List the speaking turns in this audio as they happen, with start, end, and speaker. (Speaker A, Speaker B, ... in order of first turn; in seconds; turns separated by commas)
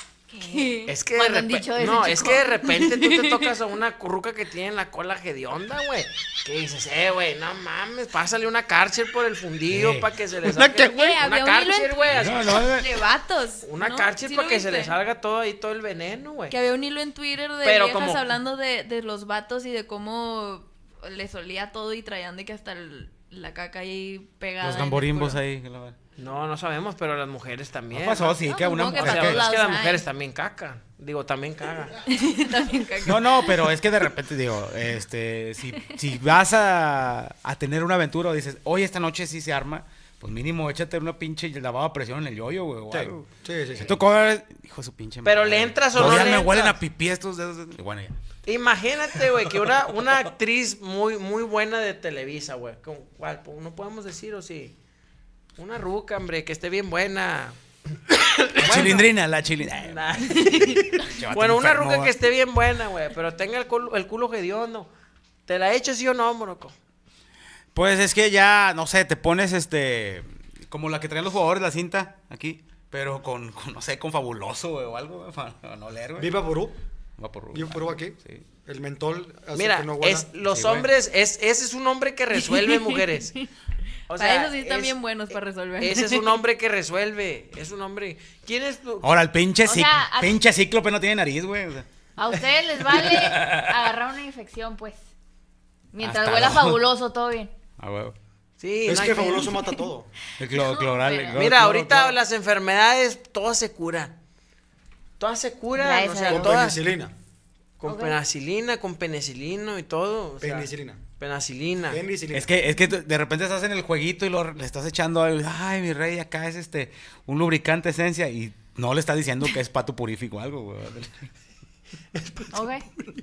Speaker A: 0.3-0.9, Speaker B: 0.4-2.5, Speaker C: 0.9-12.5, Speaker A: 2.7-3.5, Speaker D: 9.7-10.8, Speaker A: 10.8-14.9, Speaker D: 12.1-12.9, Speaker C: 13.6-16.5, Speaker A: 16.5-25.4, Speaker C: 17.6-18.2, Speaker D: 24.6-26.0, Speaker C: 26.2-32.0, Speaker D: 27.9-29.5, Speaker A: 28.4-30.0, Speaker A: 32.1-33.7, Speaker D: 33.0-48.1, Speaker E: 42.9-44.0, Speaker C: 45.2-46.8, Speaker E: 46.0-46.3, Speaker C: 48.5-54.8, Speaker C: 55.6-57.6, Speaker C: 58.1-59.1, Speaker D: 58.6-62.1, Speaker C: 59.8-64.9, Speaker C: 65.5-66.8, Speaker D: 67.7-76.3, Speaker E: 76.2-76.8, Speaker D: 77.2-78.5, Speaker E: 77.5-80.3, Speaker C: 79.5-83.3, Speaker D: 80.5-80.9, Speaker C: 84.1-89.1, Speaker A: 84.1-86.4, Speaker D: 89.0-91.9, Speaker B: 89.6-90.4, Speaker B: 92.2-95.0, Speaker D: 92.9-93.8, Speaker B: 95.9-97.5, Speaker D: 96.0-96.8, Speaker D: 97.8-98.1, Speaker C: 98.6-99.5, Speaker E: 98.9-100.1, Speaker D: 100.4-102.1, Speaker B: 100.5-101.4, Speaker C: 101.3-104.1, Speaker C: 105.2-106.8, Speaker B: 105.8-106.6, Speaker E: 106.3-107.1, Speaker C: 107.8-112.0, Speaker B: 107.8-108.2, Speaker E: 110.4-111.0, Speaker E: 111.9-112.5, Speaker D: 112.3-121.3, Speaker C: 122.2-122.6, Speaker B: 122.5-122.8